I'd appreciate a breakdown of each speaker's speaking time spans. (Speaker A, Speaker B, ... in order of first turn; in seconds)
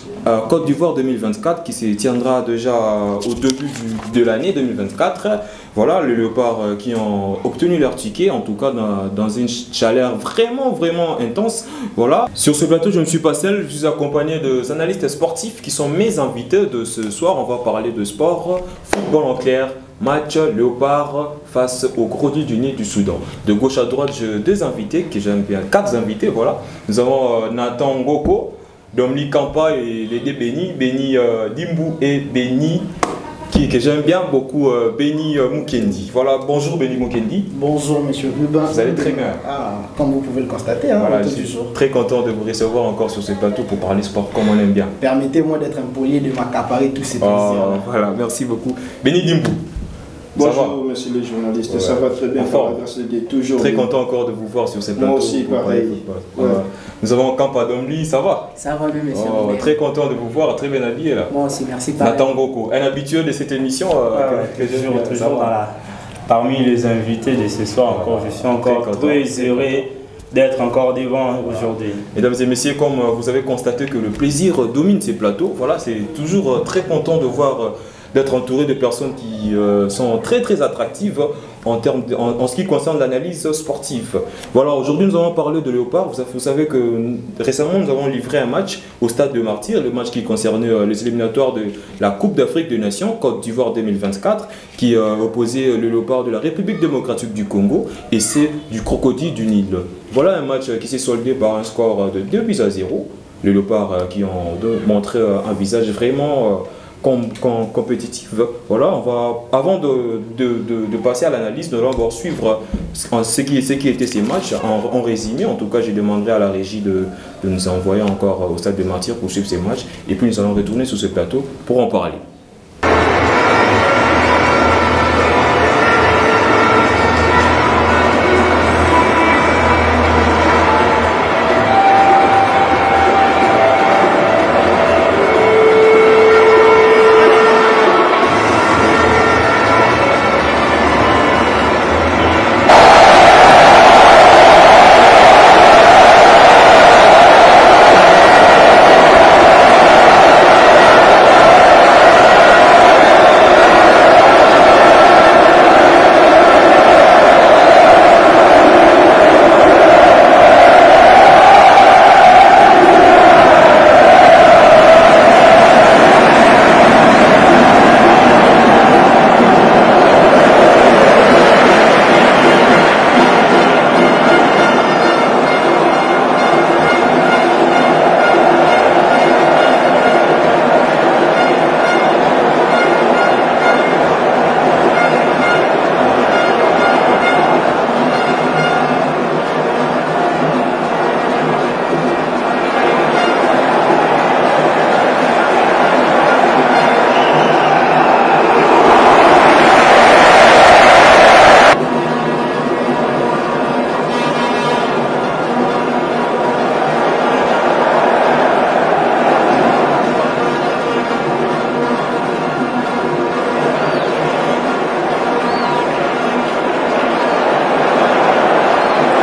Speaker A: 0.3-32.9, 33.5-37.5, 38.7-39.4, 41.0-44.9, 47.2-49.6, 50.4-50.8, 51.7-52.8, 53.6-58.5, 59.1-61.3, 62.0-65.5, 67.9-69.8, 71.5-122.2
Speaker B: 37.5-41.7, 45.0-47.8
Speaker C: 50.4-53.9, 55.0-56.6
Speaker D: 58.6-59.7, 61.3-62.3
Speaker E: 64.1-65.7, 66.3-72.0